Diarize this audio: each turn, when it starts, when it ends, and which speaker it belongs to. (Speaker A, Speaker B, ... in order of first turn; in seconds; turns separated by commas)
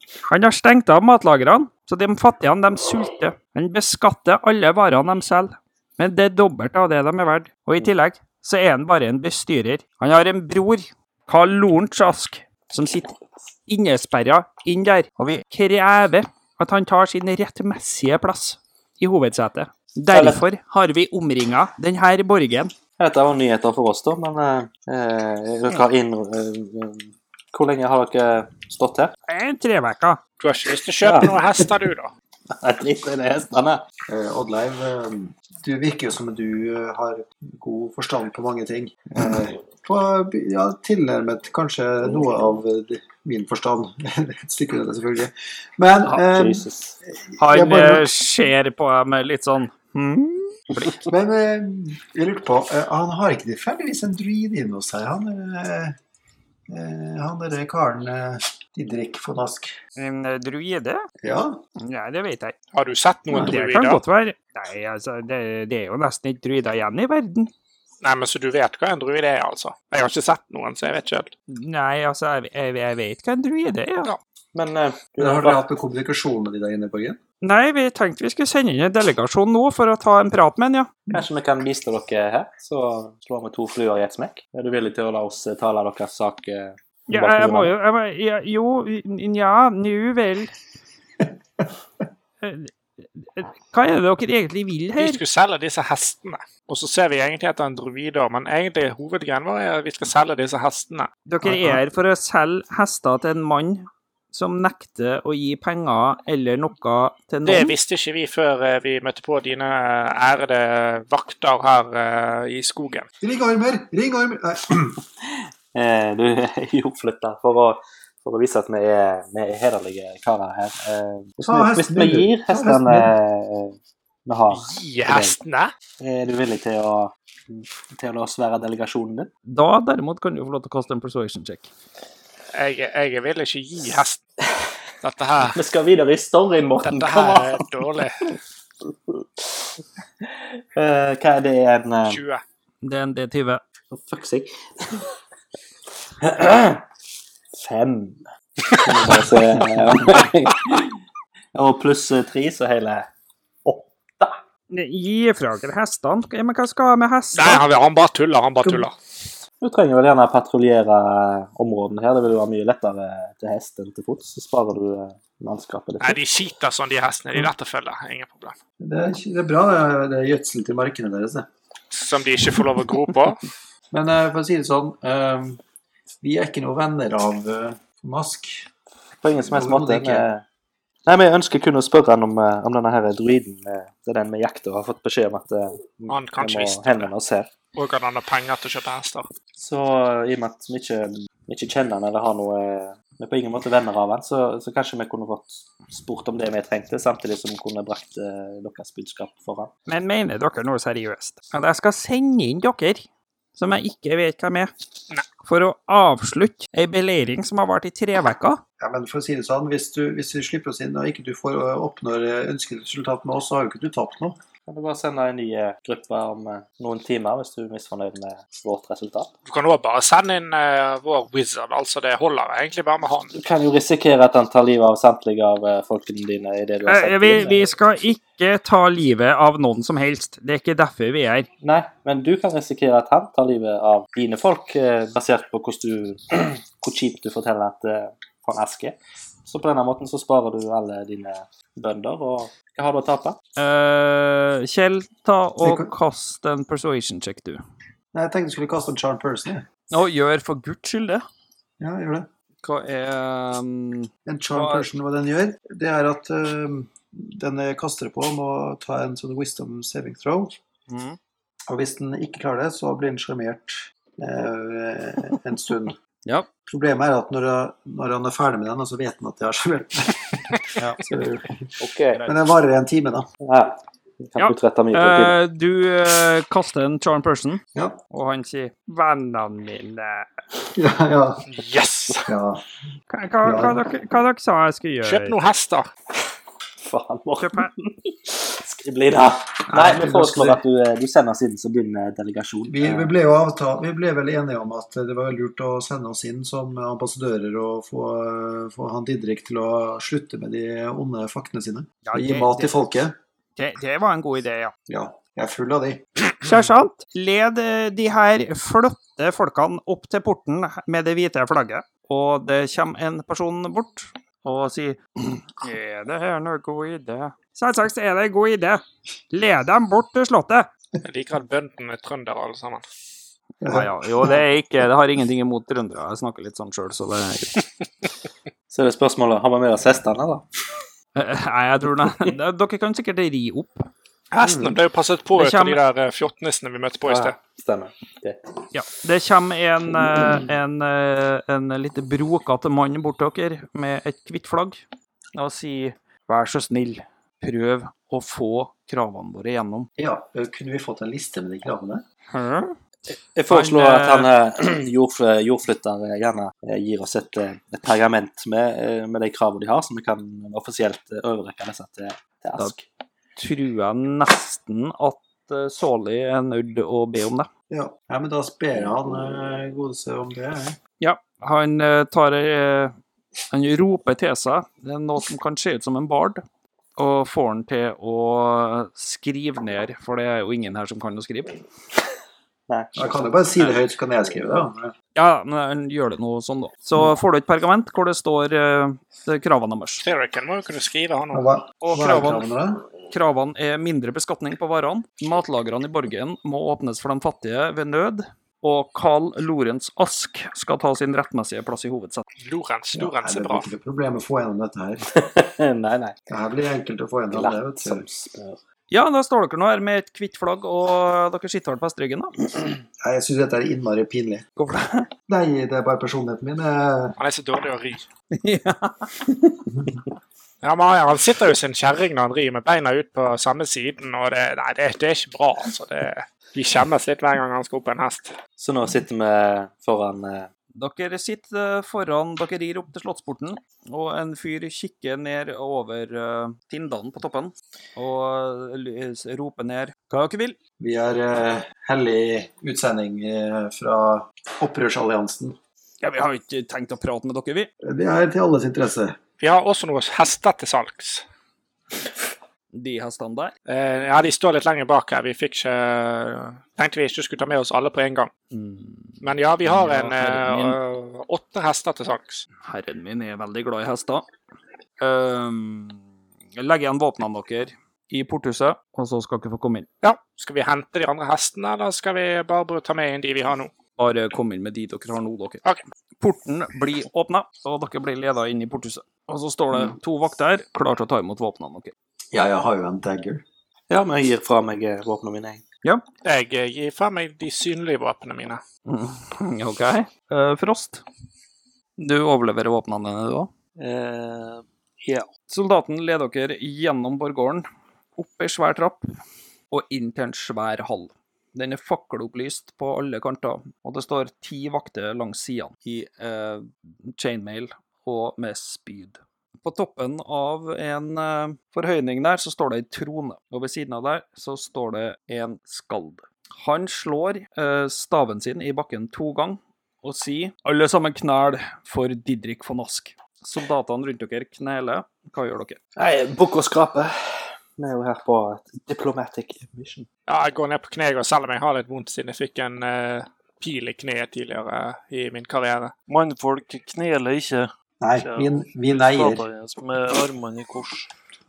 Speaker A: 0.3-13.2, Speaker A: 13.7-22.7, Speaker B: 20.1-20.4, Speaker B: 23.0-29.1, Speaker A: 29.3-30.2, Speaker C: 30.4-32.1, Speaker B: 31.0-31.3, Speaker B: 32.5-33.8, Speaker D: 34.1-48.1, Speaker B: 46.1-47.0, Speaker A: 47.4-51.0, Speaker D: 51.0-55.9, Speaker D: 56.7-59.8, Speaker A: 60.0-61.0, Speaker D: 61.2-61.6, Speaker A: 61.8-62.5, Speaker C: 62.7-64.0, Speaker A: 63.3-67.5, Speaker C: 68.0-71.3, Speaker A: 71.5-74.1, Speaker B: 74.5-75.6, Speaker D: 75.2-77.2, Speaker A: 77.4-80.9, Speaker B: 81.1-87.7, Speaker A: 87.1-90.5, Speaker A: 92.4-95.2, Speaker C: 95.0-101.1, Speaker A: 101.2-107.7, Speaker D: 101.4-101.8, Speaker C: 107.4-113.0, Speaker D: 113.2-115.0, Speaker B: 115.7-125.3, Speaker D: 121.4-123.1, Speaker C: 124.5-125.7, Speaker B: 126.0-129.3, Speaker A: 129.5-131.7, Speaker C: 132.5-134.2, Speaker C: 135.0-135.6, Speaker B: 135.5-137.9, Speaker C: 136.8-138.3, Speaker B: 139.1-139.7, Speaker B: 140.2-142.2, Speaker C: 142.1-142.4, Speaker A: 142.8-143.6, Speaker B: 143.9-145.1, Speaker B: 146.2-146.8, Speaker B: 147.5-150.9, Speaker B: 151.5-153.1, Speaker B: 153.6-154.4, Speaker A: 154.7-157.6, Speaker C: 157.3-158.9, Speaker B: 159.6-166.2, Speaker C: 166.0-168.5, Speaker D: 168.8-171.5, Speaker C: 171.9-173.4, Speaker D: 173.9-175.6, Speaker D: 176.2-178.7, Speaker B: 179.2-180.4, Speaker D: 179.4-180.3, Speaker B: 181.1-187.5, Speaker C: 186.1-187.1, Speaker C: 187.7-189.3, Speaker B: 189.6-199.7, Speaker A: 199.9-204.7, Speaker A: 205.4-208.6, Speaker D: 208.8-214.4, Speaker B: 214.7-219.3, Speaker C: 219.5-223.4, Speaker B: 223.3-227.7, Speaker A: 226.8-231.5, Speaker B: 231.6-243.4, Speaker A: 243.6-247.6, Speaker D: 245.6-245.9, Speaker D: 248.1-249.6, Speaker A: 249.9-251.2, Speaker D: 251.8-252.3, Speaker A: 252.6-254.9, Speaker D: 254.2-260.5, Speaker A: 260.9-261.2, Speaker D: 261.7-265.9, Speaker D: 266.7-271.7, Speaker B: 271.8-272.2, Speaker A: 272.1-272.4, Speaker D: 272.2-273.3, Speaker B: 273.4-275.4, Speaker A: 274.4-280.3, Speaker D: 280.7-281.5, Speaker C: 281.5-282.3, Speaker D: 282.2-282.6, Speaker A: 283.1-285.4, Speaker D: 283.4-283.8, Speaker C: 285.0-285.9, Speaker B: 286.8-293.1, Speaker A: 287.4-287.7, Speaker D: 289.7-290.6, Speaker D: 292.7-303.1, Speaker A: 302.0-302.7, Speaker A: 303.6-304.7, Speaker D: 304.9-306.1, Speaker A: 306.4-320.7, Speaker C: 321.0-322.8, Speaker D: 323.6-324.4, Speaker A: 323.6-327.6, Speaker B: 328.7-330.4, Speaker A: 331.1-333.9, Speaker C: 334.3-337.4, Speaker A: 335.4-335.8, Speaker B: 337.0-338.5, Speaker A: 338.7-344.8, Speaker A: 345.3-349.9, Speaker D: 350.0-352.0, Speaker A: 352.3-352.8, Speaker B: 353.3-362.8, Speaker A: 353.5-354.3, Speaker A: 363.4-367.5, Speaker D: 367.7-370.8, Speaker A: 371.0-372.9, Speaker A: 373.5-376.4, Speaker A: 377.0-381.6, Speaker B: 382.7-383.3, Speaker D: 382.9-384.9, Speaker A: 385.1-390.0, Speaker C: 390.0-391.4, Speaker D: 391.3-392.8, Speaker A: 391.8-392.5, Speaker A: 393.1-402.2, Speaker C: 402.4-403.6, Speaker D: 402.9-405.0, Speaker B: 405.1-406.2, Speaker D: 406.3-408.0, Speaker B: 407.3-408.6, Speaker A: 408.9-412.3, Speaker D: 413.0-414.4, Speaker A: 414.6-415.1, Speaker D: 415.3-417.1, Speaker C: 417.2-418.1, Speaker A: 418.3-419.6, Speaker C: 420.6-428.4, Speaker B: 428.6-430.5, Speaker A: 430.7-440.6, Speaker D: 440.8-445.6, Speaker A: 446.0-447.7, Speaker D: 447.8-449.2, Speaker C: 449.4-451.2, Speaker A: 452.7-453.5, Speaker C: 453.7-458.3, Speaker A: 458.5-460.8, Speaker C: 459.2-462.4, Speaker A: 462.6-464.2, Speaker A: 465.0-466.0, Speaker A: 466.6-469.9, Speaker C: 470.0-473.7, Speaker A: 474.0-475.6, Speaker A: 476.2-481.9, Speaker D: 482.3-483.4, Speaker B: 483.9-485.6, Speaker C: 486.2-488.6, Speaker A: 488.9-491.0, Speaker A: 492.0-493.5, Speaker B: 493.8-495.3, Speaker A: 495.5-499.1, Speaker A: 499.7-525.8, Speaker B: 526.0-530.1, Speaker C: 530.3-535.9, Speaker E: 536.1-541.1, Speaker D: 538.0-539.4